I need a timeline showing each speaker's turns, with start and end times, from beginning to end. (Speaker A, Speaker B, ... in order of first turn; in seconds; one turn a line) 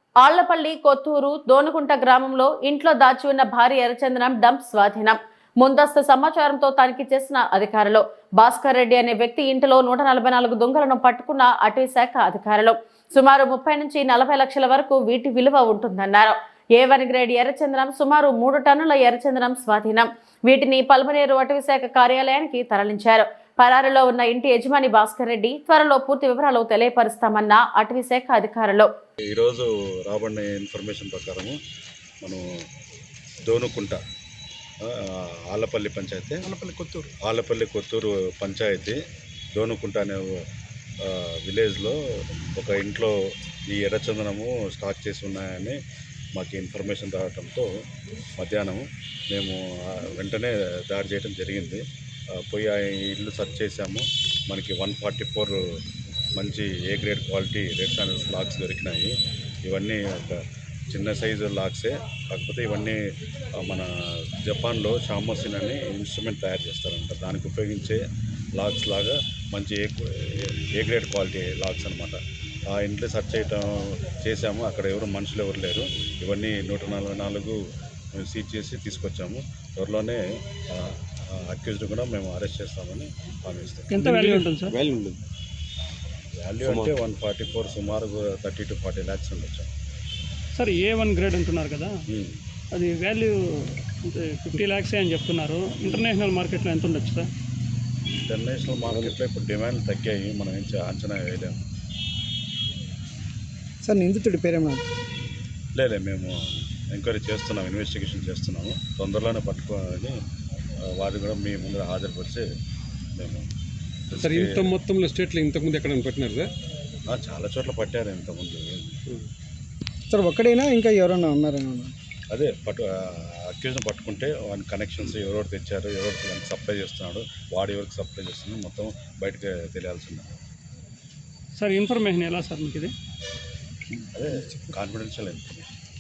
Speaker A: 0.2-28.9
Speaker B: 29.3-31.6
Speaker B: 33.4-34.0
Speaker B: 34.8-36.5
Speaker B: 37.2-39.0
Speaker B: 39.5-40.3
Speaker B: 41.0-42.0
Speaker B: 42.5-43.1
Speaker B: 43.7-45.8
Speaker B: 46.3-47.7
Speaker B: 48.4-51.8
Speaker B: 52.4-55.6
Speaker B: 56.3-59.1
Speaker B: 59.6-63.0
Speaker B: 63.5-68.0
Speaker B: 68.5-77.6
Speaker B: 78.1-83.9
Speaker C: 83.9-84.7
Speaker D: 84.0-85.2
Speaker B: 86.4-89.7
Speaker D: 86.6-86.9
Speaker C: 90.5-91.9
Speaker B: 92.1-92.4
Speaker C: 92.7-97.3
Speaker B: 98.2-101.6
Speaker E: 103.8-104.8
Speaker B: 105.7-106.4
Speaker B: 106.9-110.2
Speaker B: 110.9-112.5
Speaker B: 113.2-113.5
Speaker B: 114.1-114.7
Speaker D: 114.2-116.5
Speaker B: 117.1-119.0
Speaker E: 120.1-121.9
Speaker B: 122.3-130.3
Speaker C: 131.6-132.9
Speaker B: 134.1-135.7